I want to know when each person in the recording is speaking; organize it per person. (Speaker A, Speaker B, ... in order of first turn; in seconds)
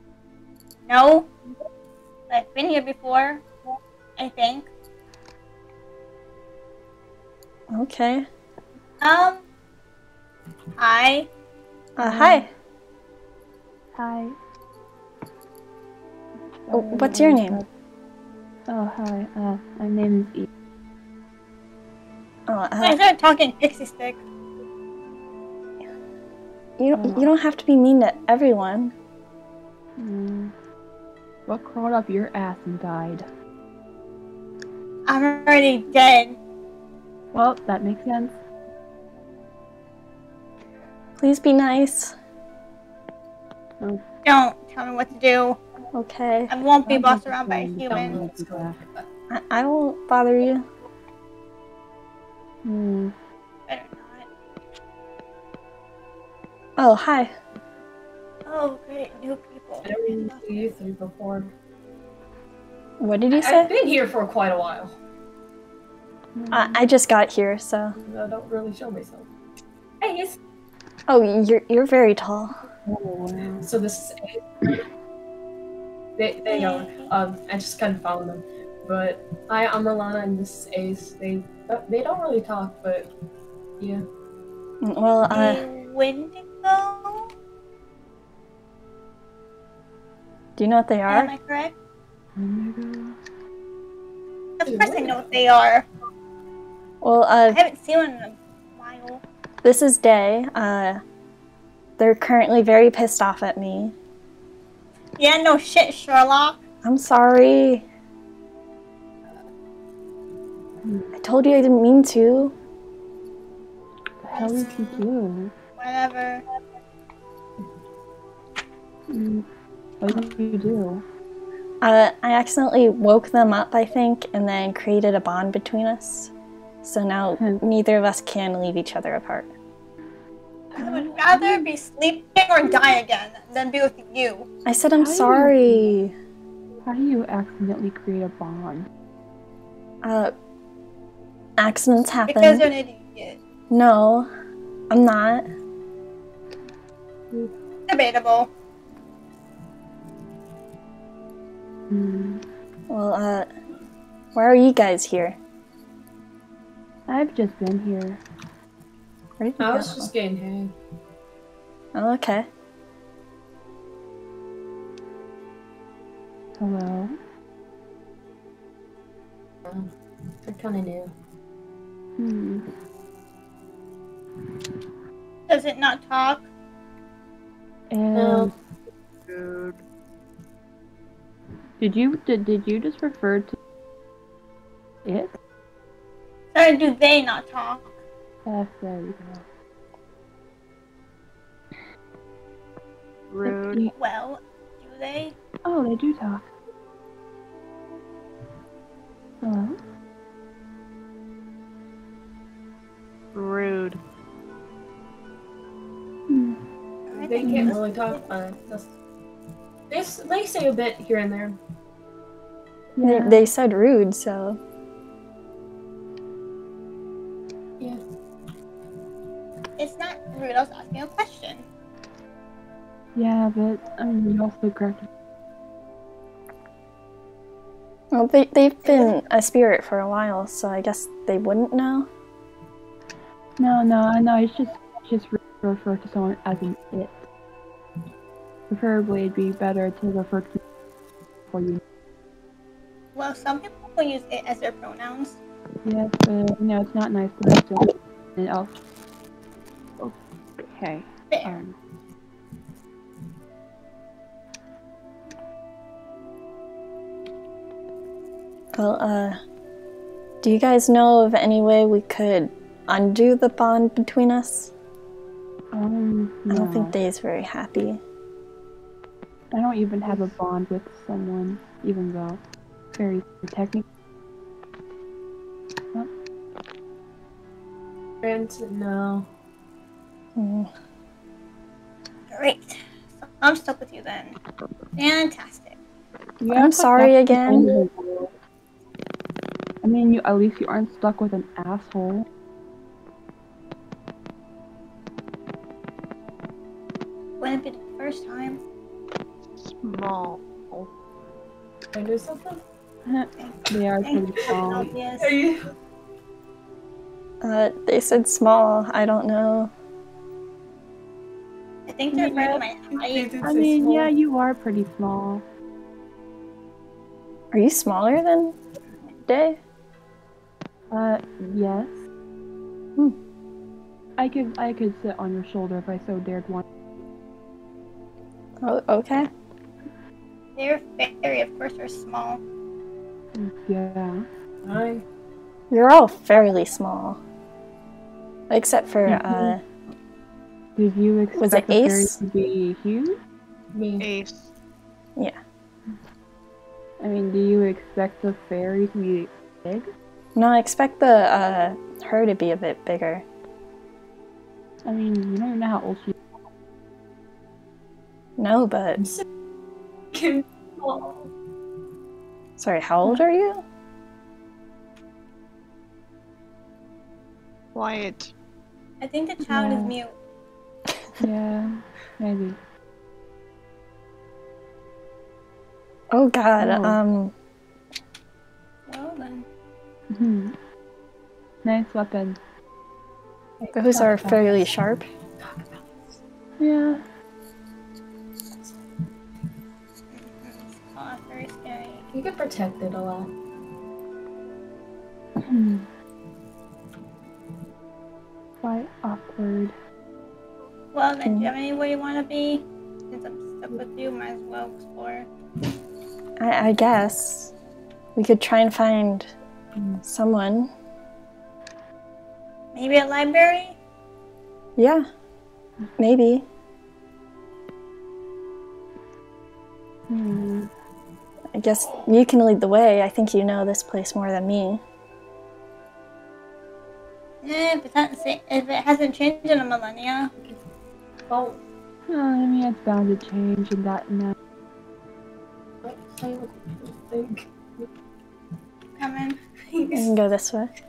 Speaker A: 0.9-1.3, 2.3-3.4, 4.2-4.7, 9.0-9.4, 10.8-11.3, 22.8-24.2, 35.1-36.4, 44.2-45.6, 46.5-48.2, 53.7-54.2, 58.5-60.7, 76.5-77.1, 85.3-87.3, 91.1-91.7, 94.6-95.9, 97.5-99.2, 105.2-106.6, 114.3-115.0, 115.8-116.4, 130.7-134.5, 142.3-143.4, 147.9-148.5, 175.5-176.5, 186.5-187.9, 194.0-195.3, 207.1-208.2, 219.8-221.6, 228.8-229.2, 243.1-245.4, 251.3-251.6, 282.3-284.4, 285.0-285.8, 297.4-298.6, 303.4-305.4, 311.9-313.3, 330.6-332.4, 369.0-370.1, 378.9-379.4, 390.1-392.0, 400.9-405.3, 412.8-413.8, 427.4-430.3, 439.0-439.4
Speaker B: 7.7-8.3, 12.0-12.5, 16.7-17.6, 22.5-23.0, 26.8-28.9, 41.2-42.1, 45.9-46.5, 49.3-50.6, 56.8-57.3, 63.0-63.7, 66.5-68.0, 71.1-72.6, 84.8-85.7, 90.6-91.3, 97.0-97.6, 99.6-101.0, 102.0-103.9, 106.8-107.8, 111.2-112.5, 121.8-129.5, 134.6-136.1, 140.0-140.3, 141.6-142.7, 143.7-144.3, 144.9-145.5, 152.9-153.5, 154.3-155.4, 159.4-160.1, 161.9-162.5, 213.0-214.6, 228.1-232.1, 258.8-259.4, 260.4-264.7, 266.5-268.0, 280.4-280.7, 286.5-287.7, 307.4-309.7, 317.5-318.5, 319.2-319.6, 328.6-329.3, 335.7-337.2, 338.5-339.6, 341.4-342.1, 350.4-353.2, 358.4-359.0, 362.6-363.6, 376.1-377.3, 383.7-385.1, 401.2-401.5, 406.4-407.5, 408.1-409.3, 410.0-410.7, 414.8-415.0, 416.0-416.5, 421.5-424.8, 439.9-440.7
Speaker C: 12.0-12.5, 13.9-14.3, 16.6-17.7, 18.7-20.5, 26.9-27.3, 30.0-30.5, 31.4-33.2, 37.3-38.3, 46.9-48.8, 52.6-53.1, 66.4-66.8, 72.9-73.7, 92.4-93.2, 110.8-111.1, 114.2-115.5, 119.1-119.5, 120.0-121.0, 130.8-131.7, 135.0-135.9, 136.8-138.9, 151.9-152.4, 157.1-158.2, 166.6-167.2, 172.2-172.7, 177.9-178.5, 181.8-183.6, 185.0-185.3, 188.5-189.4, 193.4-193.9, 195.7-196.5, 199.4-199.8, 206.3-206.6, 207.4-207.8, 213.0-213.5, 223.1-225.1, 233.6-237.2, 238.7-240.6, 241.5-241.8, 245.8-248.8, 250.0-251.8, 265.7-266.9, 269.5-272.4, 272.9-273.9, 286.4-288.3, 289.8-292.2, 303.1-304.9, 312.1-312.6, 313.4-315.4, 320.9-322.0, 324.2-326.6, 333.3-334.2, 339.0-339.6, 340.8-343.2, 347.0-349.9, 354.9-356.2, 369.4-369.9, 371.2-372.6, 376.6-377.0, 380.1-380.5, 381.6-382.4, 386.6-387.0, 395.4-395.9, 398.6-399.7, 420.1-420.7, 432.1-434.4
Speaker D: 47.9-49.0, 59.8-61.5, 63.3-65.0, 68.0-69.3, 70.0-70.4, 73.6-74.7, 76.2-83.1, 83.8-84.0, 94.7-95.2, 159.6-160.7, 170.5-171.1, 178.1-178.5, 207.1-208.9, 209.9-211.6, 278.2-279.3, 287.5-287.8, 301.9-302.6, 304.6-305.7, 312.9-314.1, 334.6-335.0, 343.7-344.1, 360.1-361.3, 383.6-384.7, 385.4-385.8, 392.1-393.3, 431.3-431.6, 435.8-437.9, 439.7-440.2
Speaker E: 179.3-179.8, 193.3-193.9, 203.3-204.0, 299.6-300.9, 344.0-344.5, 367.8-368.3